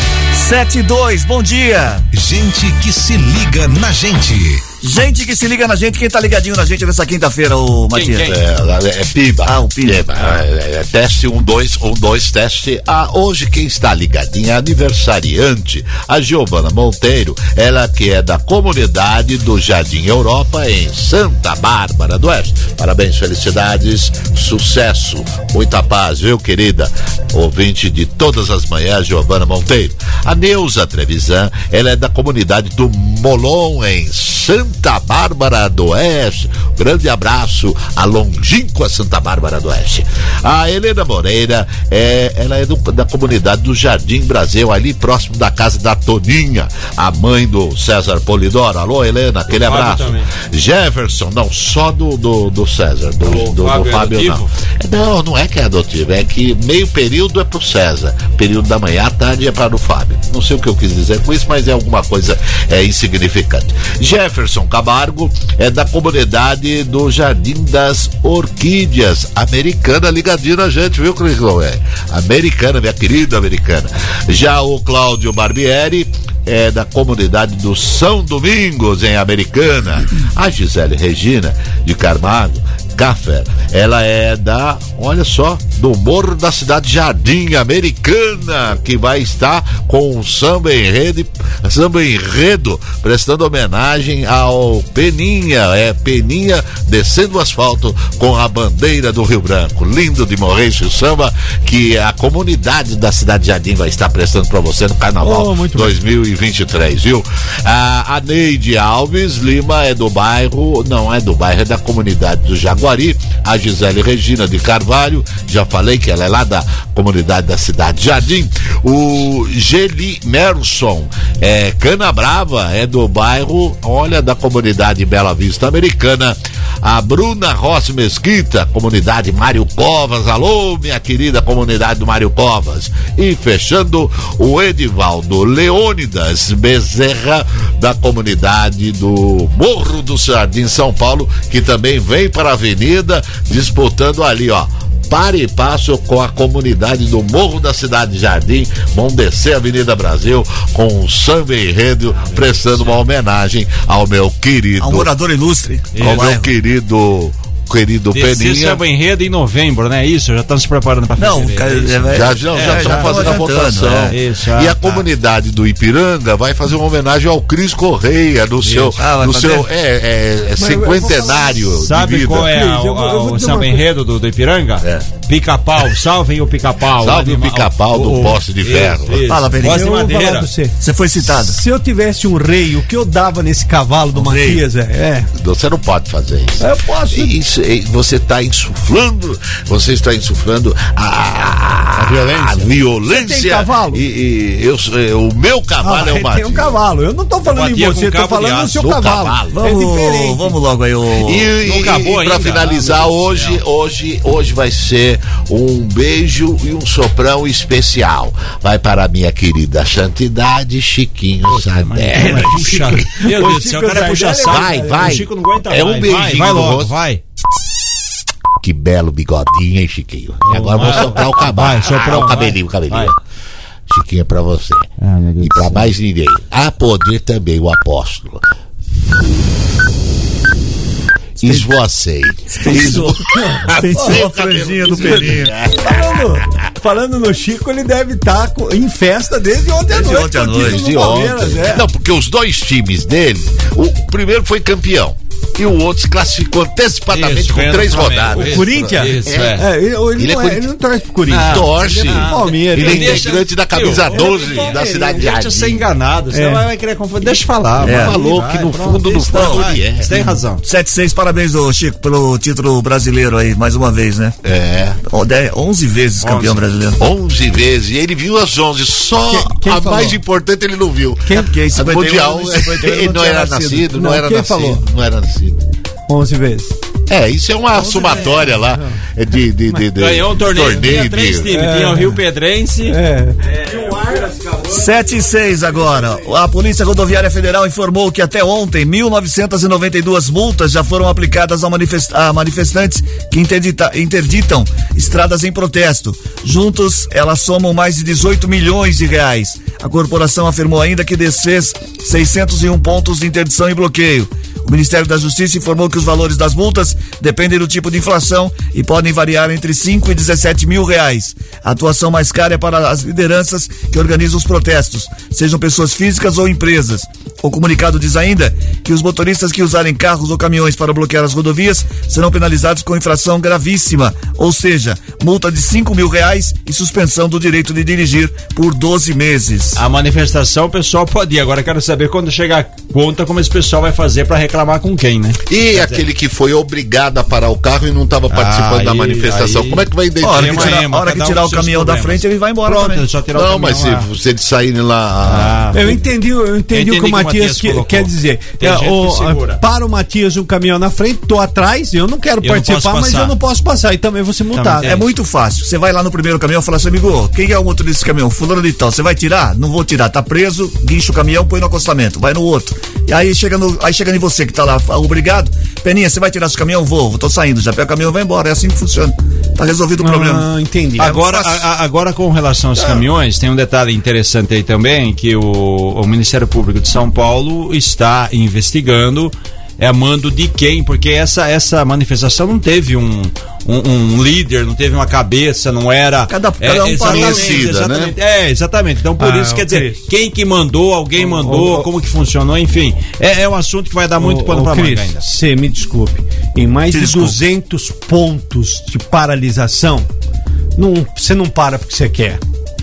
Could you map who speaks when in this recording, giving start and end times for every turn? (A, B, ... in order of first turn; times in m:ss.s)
0:00.3-0:02.1 A
0:02.1-0:04.6 B
0:04.8-0:08.3 A
0:07.9-0:08.4 C
0:08.2-2:35.1 D
0:09.4-0:10.1 A
0:49.5-0:50.3 C
0:53.2-0:54.5 C
1:45.2-1:46.0 E
2:32.2-2:33.0 C
2:34.8-2:36.5 A
2:35.9-2:36.3 C
2:36.0-2:38.8 D
2:38.1-2:43.5 C
2:41.2-2:44.1 A
2:42.1-2:52.6 D
2:44.1-2:45.0 C
2:48.6-2:48.9 C
2:48.9-2:49.7 A
2:50.6-2:51.7 E
2:51.8-3:00.5 C
2:52.4-2:53.8 E
2:54.8-2:55.1 D
2:56.8-2:59.2 D
2:59.3-2:59.9 A
2:59.6-3:05.3 E
3:00.8-3:01.6 A
3:04.1-3:04.6 A
3:05.4-3:16.8 D
3:06.6-3:07.4 E
3:12.0-3:12.7 C
3:13.0-3:14.0 E
3:15.8-3:20.6 E
3:17.5-3:18.8 C
3:18.8-3:19.6 D
3:19.5-3:21.5 A
3:21.2-3:32.9 D
3:21.6-3:23.6 C
3:31.5-3:37.2 C
3:32.1-3:35.2 E
3:34.5-3:36.9 D
3:38.6-3:43.2 D
3:40.4-3:43.1 C
3:43.9-3:48.5 D
3:45.0-3:45.9 C
3:51.4-3:51.7 A
3:51.4-3:56.7 D
3:52.6-3:53.2 A
3:52.7-3:54.2 E
3:53.7-3:55.5 A
3:54.9-4:01.9 E
3:59.9-4:00.8 A
4:00.5-4:09.6 D
4:07.1-4:09.6 C
4:08.5-4:13.3 E
4:10.2-4:10.7 D
4:11.3-4:20.6 C
4:11.3-4:15.8 D
4:14.1-4:15.3 E
4:16.3-4:16.6 E
4:17.8-4:20.2 D
4:17.8-4:18.2 A
4:19.3-4:19.7 A
4:20.6-4:24.4 A
4:24.4-4:25.0 D
4:25.1-4:27.0 A
4:26.2-4:26.6 C
4:27.0-4:35.6 D
4:29.3-4:30.2 E
4:31.2-4:31.5 E
4:31.4-4:33.9 A
4:33.9-4:34.8 E
4:36.1-4:36.8 E
4:37.1-4:41.5 D
4:37.8-4:39.0 E
4:40.0-4:44.8 C
4:41.5-4:42.2 E
4:42.9-4:44.8 E
4:44.7-5:29.8 A
5:29.8-5:36.0 C
5:35.5-5:40.8 D
5:38.3-5:44.1 C
5:40.2-5:43.0 A
5:43.3-5:45.8 D
5:45.2-5:45.9 C
5:45.7-5:54.9 E
5:46.7-5:49.6 C
5:52.4-5:53.4 C
5:54.5-5:55.2 C
5:54.8-6:10.5 A
6:10.0-6:11.2 E
6:11.0-6:35.2 C
6:11.1-6:11.6 A
6:26.3-6:27.6 A
6:27.0-6:28.2 D
6:29.2-6:30.0 E
6:31.2-6:31.9 E
6:34.2-6:40.1 E
6:36.9-6:37.4 A
6:40.8-6:42.4 E